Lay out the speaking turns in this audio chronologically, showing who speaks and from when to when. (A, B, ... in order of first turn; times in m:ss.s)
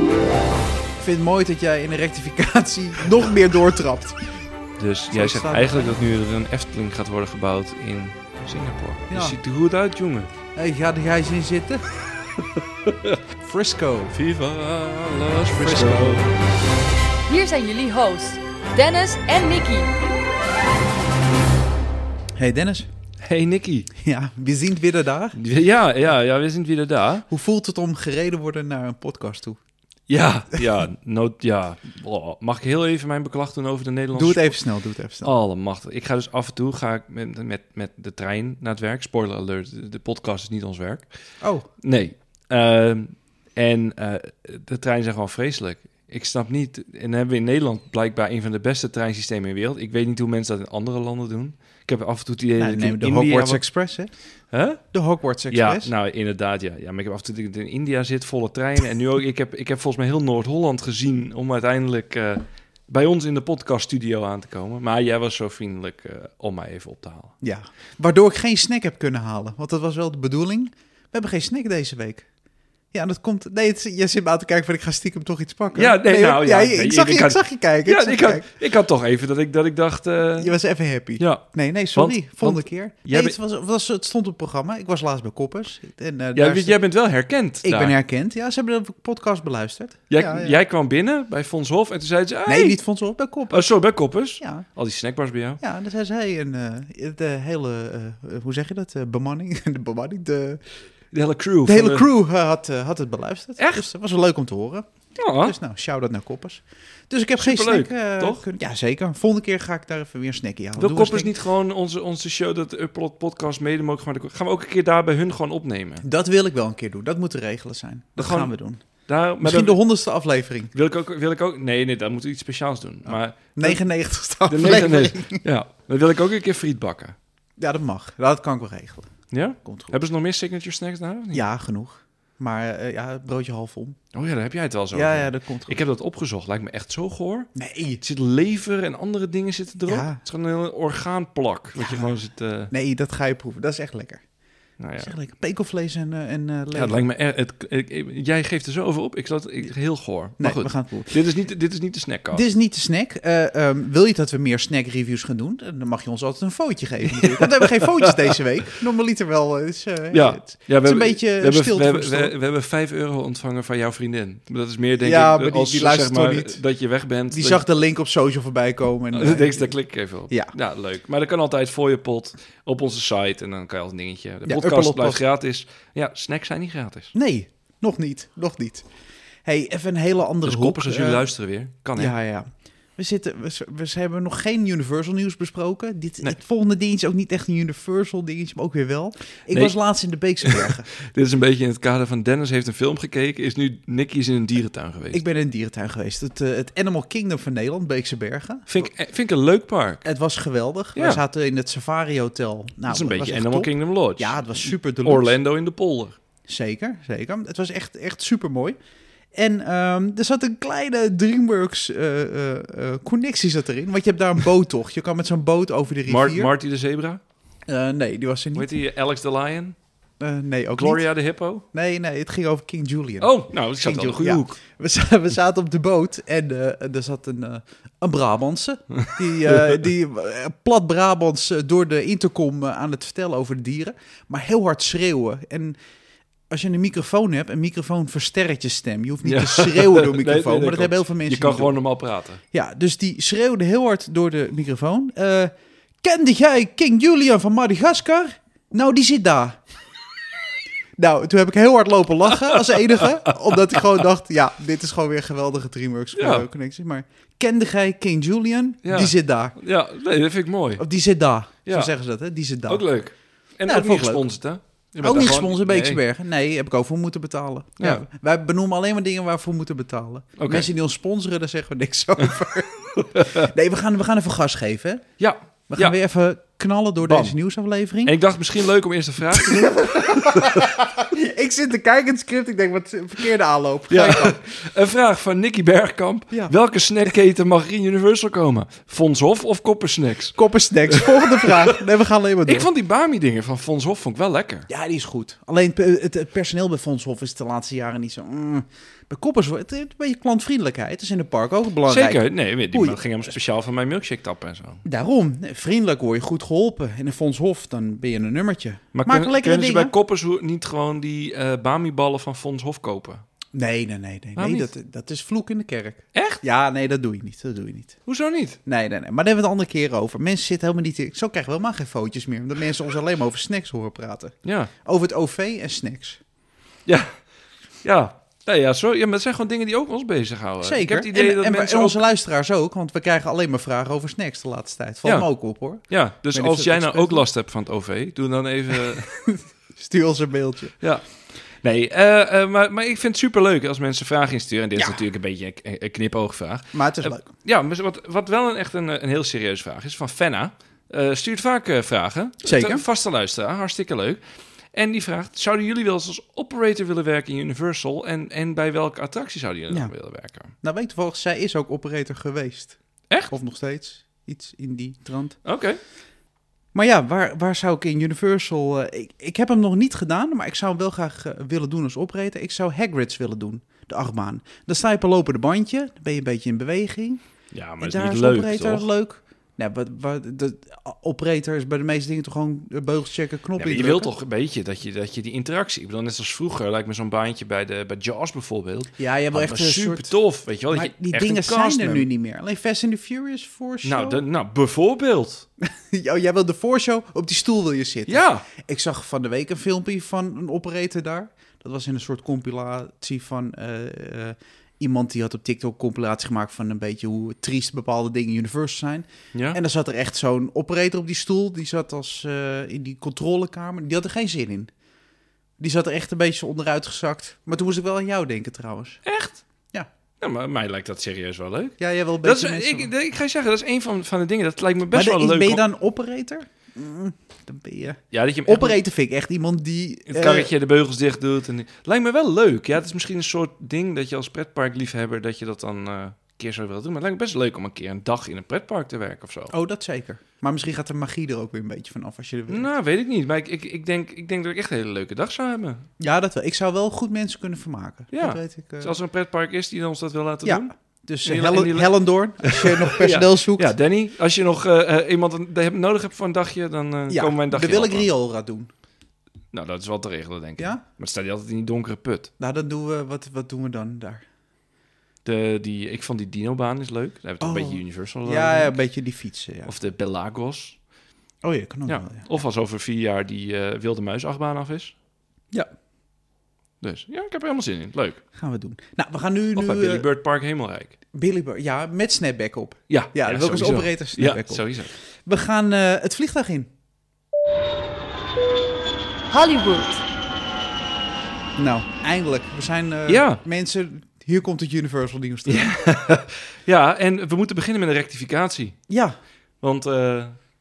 0:01.0-0:04.3 A
0:04.8-0:10.3 B
0:05.1-0:06.0 A
0:09.1-0:09.4 A
0:10.6-0:11.8 A
0:12.9-0:13.2 B
0:13.4-0:14.2 A
0:14.1-0:16.4 B
0:15.5-0:16.3 A
0:17.3-0:19.9 C
0:22.4-0:22.9 A
0:23.2-0:23.9 B
0:24.0-0:25.4 A
0:25.4-0:27.2 B
0:27.3-0:29.6 A
0:30.1-0:34.6 B
0:34.1-0:35.3 A
0:35.2-0:41.1 B
0:41.4-0:41.7 A
0:41.8-0:53.6 B
0:52.6-0:54.1 A
0:54.5-0:54.8 B
0:54.9-0:55.9 A
0:55.5-1:07.3 B
1:07.4-1:12.3 A
1:12.9-1:18.5 A
1:15.7-1:20.5 B
1:20.4-1:26.8 A
1:21.2-1:23.4 B
1:26.4-1:28.0 B
1:27.6-1:30.6 A
1:30.1-1:32.8 B
1:32.5-1:33.7 A
1:33.5-1:35.6 B
1:34.4-1:34.7 A
1:35.6-1:40.6 A
1:41.1-1:42.1 B
1:41.6-1:44.9 A
1:43.6-1:43.8 B
1:45.2-1:45.6 B
1:45.4-1:51.3 A
1:47.4-1:48.4 B
1:50.8-1:56.1 B
1:56.0-1:58.8 A
1:58.2-1:58.5 B
1:59.0-1:59.8 B
1:59.4-2:00.7 A
2:00.7-2:03.8 B
2:03.1-2:05.4 A
2:04.5-2:07.2 B
2:07.6-2:10.0 A
2:09.3-2:11.4 B
2:11.3-2:14.0 A
2:14.1-2:17.5 B
2:14.9-2:15.8 A
2:17.6-2:18.0 A
2:18.0-2:22.7 B
2:19.9-2:20.2 A
2:21.8-2:22.1 A
2:22.7-2:24.2 A
2:24.8-2:25.1 B
2:25.0-2:27.0 A
2:26.7-2:32.4 B
2:30.4-2:31.2 A
2:32.3-2:42.3 A
2:37.1-2:38.4 B
2:40.1-2:47.6 B
2:45.0-2:46.6 A
2:47.3-2:49.7 A
2:49.1-2:57.1 B
2:50.3-2:50.5 A
2:54.5-2:55.2 A
2:57.1-2:58.9 A
2:59.4-3:01.2 A
3:00.4-3:02.1 B
3:02.0-3:10.9 A
3:10.4-3:15.2 B
3:15.1-3:18.9 A
3:18.7-3:20.0 B
3:20.0-3:25.4 A
3:21.0-3:21.2 B
3:22.9-3:26.2 B
3:26.5-3:28.8 A
3:29.3-3:36.5 A
3:36.1-3:37.2 B
3:37.7-3:38.7 A
3:38.6-3:39.8 B
3:40.2-3:41.0 A
3:40.8-3:41.6 B
3:41.7-3:55.8 A
3:43.2-3:44.6 B
3:56.5-4:01.8 A
3:59.2-4:02.4 B
4:02.5-4:09.6 A
4:11.0-4:19.6 A
4:12.5-4:13.2 B
4:16.2-4:16.5 B
4:18.8-4:20.9 B
4:20.8-4:22.8 A
4:21.7-4:21.9 B
4:22.7-4:26.0 B
4:23.7-4:24.3 A
4:25.0-4:35.0 A
4:30.4-4:30.7 B
4:33.0-4:33.5 B
4:35.2-4:36.0 B
4:35.7-4:38.2 A
4:37.0-4:37.4 B
4:38.0-4:40.7 B
4:39.4-4:44.4 A
4:43.9-4:51.8 B
4:50.4-4:52.7 A
4:52.5-4:54.7 B
4:54.7-5:03.3 A
5:01.8-5:04.8 B
5:04.8-5:09.9 A
5:08.9-5:13.2 B
5:13.5-5:18.0 A
5:14.4-5:14.7 B
5:16.2-5:16.4 B
5:18.1-5:18.6 B
5:18.7-5:26.2 A
5:24.4-5:24.7 B
5:26.9-5:27.2 B
5:27.8-5:32.0 B
5:30.6-5:37.2 A
5:35.0-5:39.2 B
5:38.8-5:40.8 A
5:41.6-5:54.2 B
5:44.8-5:45.0 A
5:46.7-5:47.3 A
5:52.4-5:52.8 A
5:54.7-6:00.5 B
6:00.6-6:02.8 A
6:03.3-6:05.4 A
6:05.4-6:05.8 B
6:06.7-6:17.2 A
6:17.5-6:18.9 B
6:17.8-6:24.1 A
6:23.6-6:32.1 B
6:29.0-6:30.1 A
6:30.7-6:34.2 A
6:33.8-6:35.5 B
6:35.7-6:54.7 A
6:38.1-6:38.5 B
6:49.3-6:49.6 B
6:55.6-6:59.0 A
6:59.0-6:59.4 B
7:00.2-7:05.6 B
7:01.8-7:02.9 A
7:04.9-7:10.5 A
7:08.1-7:08.8 B
7:10.1-7:19.5 B
7:19.5-7:22.7 A
7:22.5-7:25.9 B
7:26.0-7:29.0 A
7:28.1-7:30.7 B
7:30.4-7:33.7 A
7:31.2-7:38.1 B
7:37.1-7:38.7 A
7:39.5-7:42.3 B
7:42.4-7:44.2 A
7:45.2-7:48.8 B
7:47.4-7:49.7 A
7:49.7-7:50.8 B
7:51.4-7:52.3 A
7:51.9-7:54.9 B
7:56.8-7:58.2 B
7:58.4-8:00.0 A
7:59.6-8:01.0 B
8:01.1-8:04.6 A
8:02.9-8:04.9 B
8:05.3-8:06.7 A
8:09.3-8:10.0 C
8:11.6-8:15.7 A
8:13.1-8:13.4 B
8:15.5-8:18.8 B
8:18.9-8:19.2 A
8:19.6-8:20.4 B